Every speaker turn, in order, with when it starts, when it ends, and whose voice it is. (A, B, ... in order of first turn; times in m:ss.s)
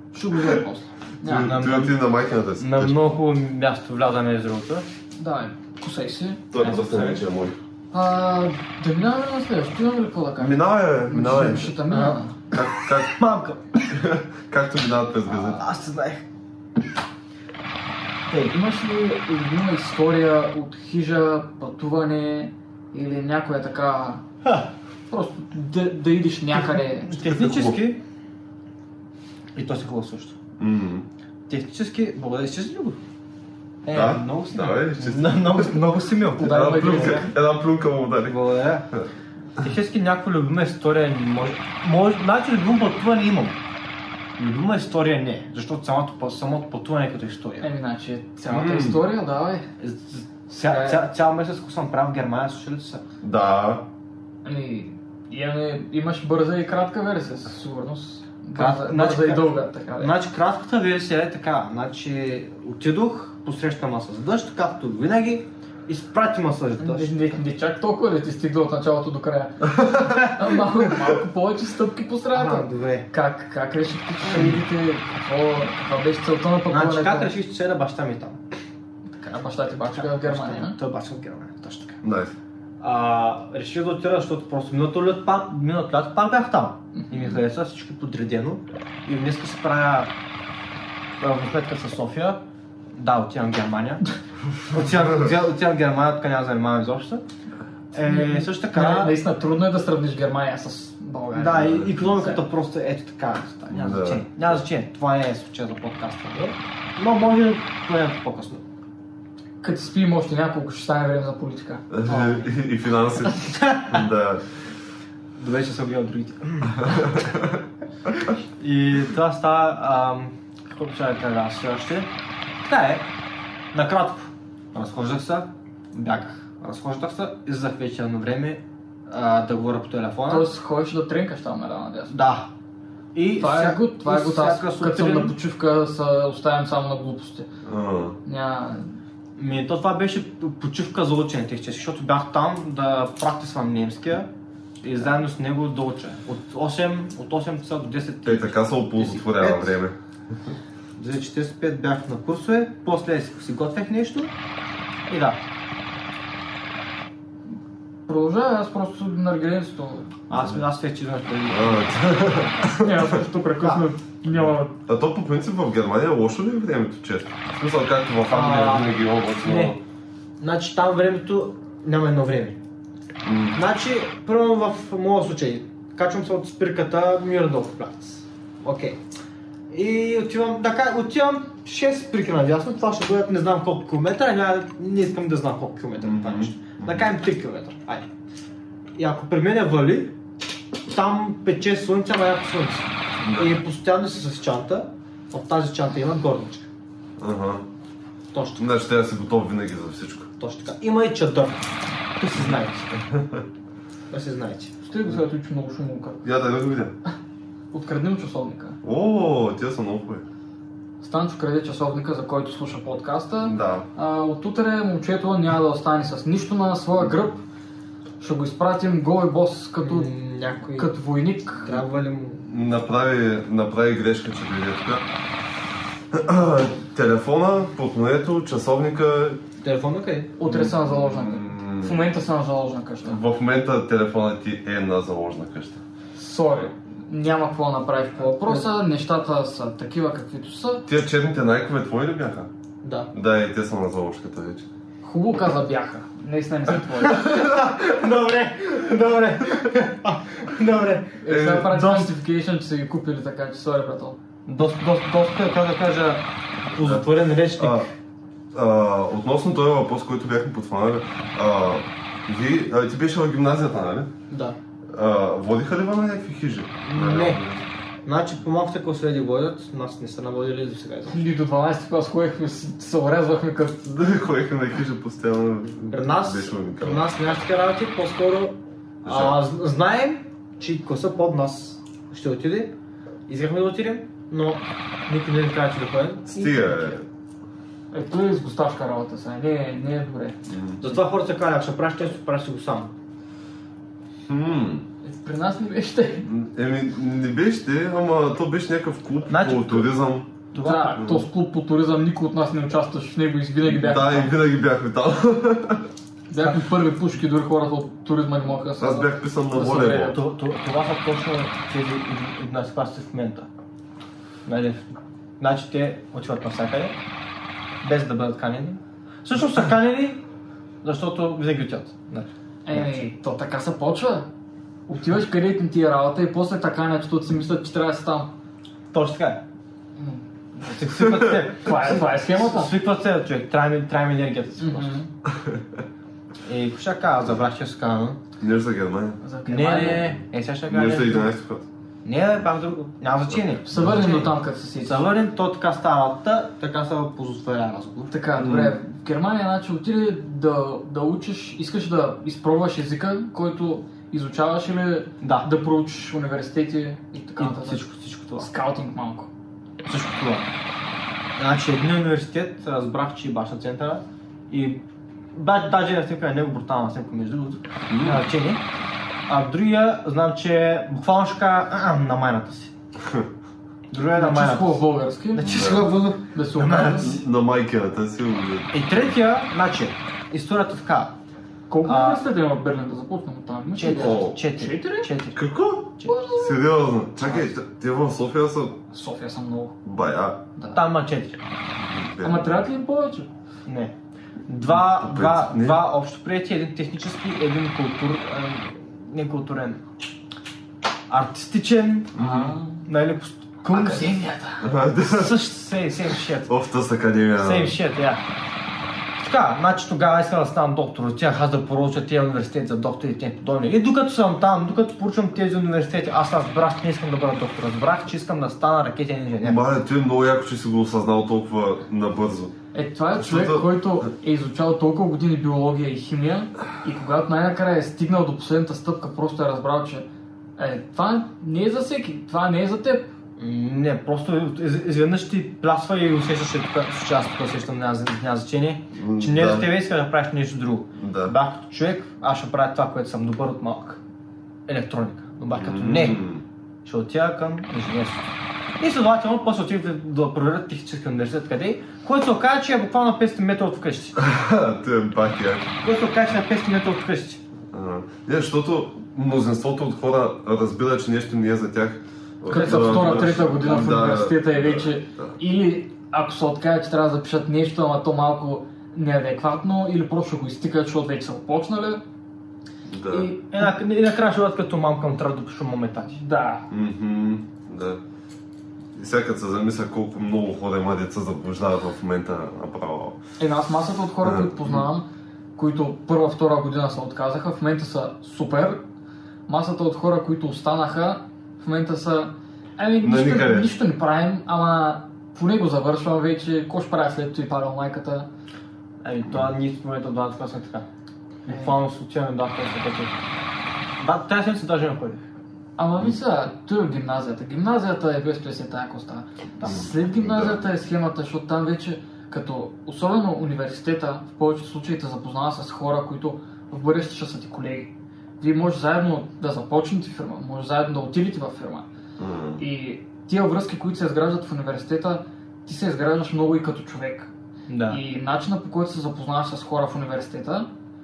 0:00.1-0:01.6 A
0:01.2-0:02.9 B
0:01.3-0:02.0 C
0:02.6-0:04.8 C
0:05.2-0:07.2 A
0:06.5-0:07.6 B
0:06.6-0:07.2 C
0:07.9-0:12.4 A
0:10.4-0:11.7 B
0:11.9-0:13.6 C
0:12.5-0:13.1 B
0:13.9-0:15.6 B
0:15.3-0:16.2 C
0:18.3-0:18.5 C
0:18.5-0:24.2 A
0:25.1-0:27.2 A
0:26.5-0:28.0 C
0:27.2-0:27.8 B
0:29.5-0:30.3 C
0:30.6-0:31.0 B
0:31.5-0:33.0 C
0:33.8-0:37.3 C
0:33.9-0:35.7 B
0:36.4-0:37.3 A
0:36.4-0:38.4 B
0:38.2-0:38.9 C
0:39.6-0:43.6 C
0:44.4-0:47.7 C
0:47.6-0:49.6 A
0:48.5-0:49.0 B
0:49.8-0:53.0 C
0:50.6-0:51.0 A
0:53.2-0:53.8 B
0:54.4-1:00.1 A
0:58.6-1:07.2 C
1:06.8-1:17.3 A
1:12.3-1:13.1 C
1:16.7-1:18.4 C
1:19.2-1:20.8 A
1:19.8-1:22.0 C
1:22.0-1:22.3 B
1:22.8-1:30.1 C
1:31.2-1:32.4 C
1:32.9-1:34.0 C
1:34.7-1:37.2 C
1:37.9-1:39.1 C
1:38.0-1:42.4 A
1:41.3-1:48.6 C
1:43.7-1:44.3 B
1:49.6-1:51.8 A
1:51.9-1:54.4 B
1:52.1-1:52.5 C
1:53.2-1:54.0 C
1:55.4-1:57.1 C
1:56.8-1:57.6 B
1:58.6-2:02.1 C
2:02.6-2:03.0 C
2:03.7-2:10.5 C
2:10.3-2:12.1 A
2:12.1-2:12.5 C
2:13.1-2:15.3 C
2:13.4-2:17.5 A
2:17.6-2:18.2 B
2:18.2-2:19.0 A
2:19.4-2:24.3 C
2:24.8-2:29.8 C
2:28.2-2:29.9 B
2:31.0-2:34.3 C
2:35.1-2:35.4 C
2:38.1-2:40.1 A
2:40.3-2:42.4 C
2:41.5-2:43.2 B
2:42.7-2:44.7 A
2:44.4-2:49.8 B
2:48.3-2:49.8 C
2:50.4-2:52.6 C
2:53.2-2:53.6 B
2:53.5-2:59.0 C
2:59.7-3:08.1 C
3:06.0-3:07.1 B
3:09.0-3:10.1 C
3:10.9-3:16.7 C
3:13.2-3:13.5 B
3:17.2-3:17.6 B
3:18.3-3:18.7 C
3:18.6-3:20.3 B
3:20.4-3:23.0 C
3:23.1-3:23.4 B
3:24.1-3:24.7 C
3:24.8-3:26.2 A
3:26.2-3:26.9 B
3:27.7-3:28.8 A
3:28.8-3:30.2 B
3:31.0-3:37.4 A
3:33.4-3:33.8 B
3:38.2-3:40.1 A
3:39.8-3:40.9 C
3:40.8-3:41.8 A
3:41.6-3:42.4 C
3:42.4-3:45.0 B
3:46.1-3:49.4 B
3:49.6-3:50.3 C
3:50.4-3:53.2 A
3:50.4-3:52.0 B
3:53.0-3:55.8 B
3:56.2-4:00.8 A
4:00.9-4:02.5 B
4:02.8-4:03.1 C
4:03.1-4:04.6 B
4:05.0-4:07.3 A
4:07.0-4:12.1 C
4:11.2-4:14.2 A
4:11.3-4:11.7 B
4:14.5-4:17.9 C
4:17.6-4:17.9 B
4:18.5-4:24.1 B
4:24.3-4:24.6 C
4:24.9-4:27.6 B
4:26.8-4:27.4 C
4:28.0-4:31.2 C
4:31.1-4:33.9 A
4:33.9-4:37.1 B
4:35.9-4:42.7 C
4:39.0-4:39.4 B
4:43.3-4:46.4 C
4:46.3-4:47.0 B
4:46.4-4:46.9 A
4:47.9-4:50.4 A
4:50.5-4:50.8 B
4:50.8-4:52.9 C
4:54.3-4:54.8 B
4:55.0-4:56.3 A
4:56.3-5:00.3 B
4:59.3-4:59.9 C
5:00.5-5:01.1 C
5:00.6-5:04.3 A
5:01.0-5:01.2 B
5:03.6-5:05.9 B
5:06.3-5:10.2 A
5:08.8-5:10.2 B
5:10.1-5:13.5 C
5:14.4-5:14.9 C
5:15.4-5:17.0 C
5:17.8-5:20.2 C
5:20.8-5:23.1 C
5:22.6-5:24.3 A
5:24.9-5:28.3 A
5:28.9-5:29.4 C
5:30.0-5:32.7 A
5:30.7-5:34.9 C
5:34.6-5:35.1 A
5:36.4-5:38.2 C
5:38.4-5:39.2 B
5:39.2-5:40.1 A
5:39.5-5:41.3 C
5:40.7-5:41.6 B
5:42.0-5:44.3 C
5:43.6-5:45.1 A
5:44.8-5:48.1 C
5:48.1-5:57.8 A
5:48.4-5:48.7 B
5:55.2-5:55.5 C
5:57.4-5:58.5 C
5:58.4-5:59.3 A
5:59.8-6:00.5 C
6:01.4-6:04.8 C
6:05.3-6:08.6 C
6:07.9-6:08.2 B
6:09.3-6:12.7 C
6:13.0-6:13.3 B
6:13.9-6:14.8 C
6:14.1-6:15.7 A
6:15.3-6:17.2 C
6:15.4-6:15.9 B
6:16.3-6:17.2 A
6:16.9-6:18.7 B
6:18.7-6:21.1 C
6:21.7-6:25.1 A
6:21.8-6:22.2 C
6:23.8-6:25.4 C
6:23.9-6:24.4 B
6:25.3-6:28.8 B
6:26.0-6:26.6 A
6:28.9-6:29.7 A
6:29.8-6:30.4 B
6:30.6-6:30.8 A
6:30.7-6:31.4 C
6:31.8-6:32.6 B
6:32.2-6:33.3 A
6:33.6-6:33.9 C
6:34.5-6:39.8 C
6:34.7-6:35.8 B
6:41.1-6:42.2 C
6:42.2-6:42.5 B
6:42.2-6:42.8 A
6:42.8-6:44.2 C
6:43.7-6:44.7 A
6:44.6-6:45.4 B
6:45.0-6:46.5 C
6:46.5-6:47.7 B
6:47.4-6:48.2 C
6:49.2-6:59.6 C
6:59.4-7:02.5 B
7:02.7-7:10.0 A
7:03.2-7:04.1 B
7:10.6-7:13.1 A
7:13.4-7:24.0 C
7:18.9-7:19.7 B
7:21.0-7:21.3 B
7:24.7-7:26.3 C
7:25.5-7:26.4 B
7:26.8-7:28.2 C
7:28.8-7:34.2 C
7:34.2-7:35.7 B
7:35.8-7:37.4 C
7:37.7-7:45.4 B
7:42.5-7:52.0 A
7:42.5-7:43.0 C
7:52.9-7:53.3 B
7:53.1-7:53.7 A
7:53.5-7:56.2 C
7:56.1-7:56.7 A
7:56.7-7:58.0 B
7:59.0-8:03.2 B
8:03.4-8:08.8 A
8:04.2-8:04.8 B
8:09.5-8:18.3 A
8:13.0-8:13.7 B
8:19.0-8:20.8 C
8:21.5-8:23.1 C
8:21.5-8:21.7 A
8:24.0-8:25.2 C
8:25.8-8:41.9 A
8:29.6-8:30.6 B
8:42.2-8:42.6 B
8:42.6-8:47.3 A
8:47.7-8:48.0 C
8:47.9-8:50.7 A